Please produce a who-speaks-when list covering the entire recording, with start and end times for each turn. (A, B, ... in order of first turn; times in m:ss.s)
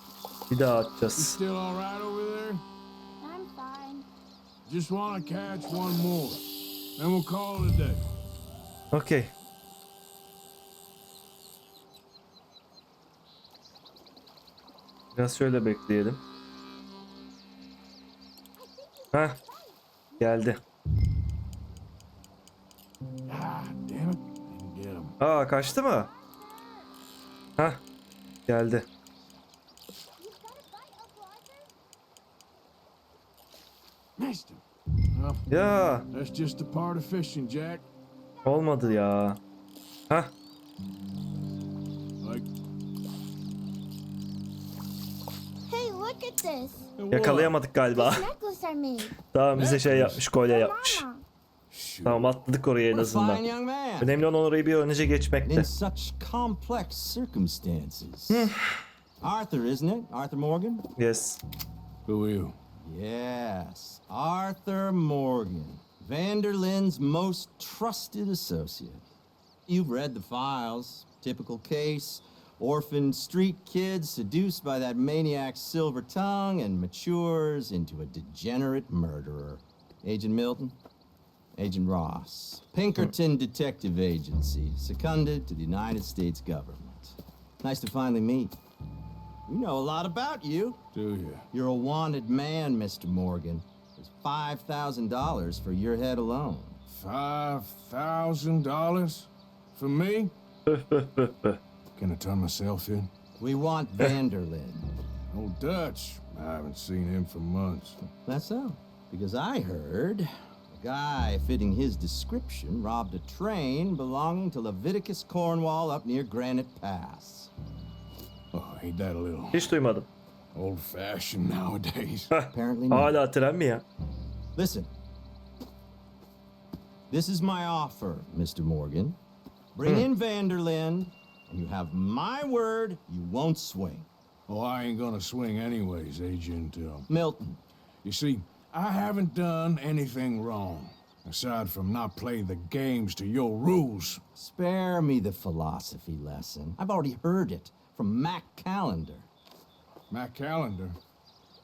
0:00.5-0:01.4 A
0:01.2-0:02.6 B
0:03.2-0:04.1 C
0:04.7-0:06.5 B
0:07.0-0:08.0 B
0:08.9-0:09.3 A
0:15.2-0:16.2 A
0:18.6-0:20.5 C
0:20.2-0:20.6 A
0:23.3-0:25.1 B
0:25.2-0:26.1 A
0:25.6-0:26.9 C
0:28.5-0:28.9 A
0:30.2-0:31.7 C
0:34.2-0:34.6 B
0:35.1-0:35.5 B
0:35.5-0:36.1 A
0:36.1-0:37.9 B
0:38.4-0:39.0 C
0:38.4-0:39.4 A
0:45.7-0:46.9 C
0:47.0-0:47.6 B
0:47.1-0:48.3 A
0:47.9-0:49.2 C
0:49.3-0:51.0 A
0:49.6-0:50.2 B
0:50.4-0:51.2 C
0:51.7-0:52.4 B
0:52.0-0:53.4 A
0:52.9-0:54.2 D
0:54.0-0:55.7 A
0:55.4-0:58.5 D
0:58.3-0:58.6 A
0:59.2-1:00.9 D
1:01.0-1:01.4 A
1:02.1-1:02.6 B
1:02.8-1:09.0 D
1:09.7-1:20.8 D
1:21.6-1:28.6 D
1:29.5-1:30.8 D
1:30.9-1:31.5 B
1:31.5-1:36.8 D
1:36.9-1:40.3 B
1:40.7-1:41.6 A
1:42.0-1:43.1 B
1:43.4-1:44.9 D
1:45.3-1:48.0 B
1:48.3-1:57.5 D
1:58.5-1:59.7 B
1:59.5-2:00.1 A
2:00.5-2:02.3 B
2:02.3-2:03.8 A
2:02.5-2:03.2 D
2:04.6-2:04.9 D
2:07.1-2:09.2 D
2:09.8-2:14.1 D
2:14.5-2:17.1 B
2:17.1-2:17.6 D
2:18.0-2:24.2 B
2:24.4-2:29.3 D
2:30.1-2:31.0 B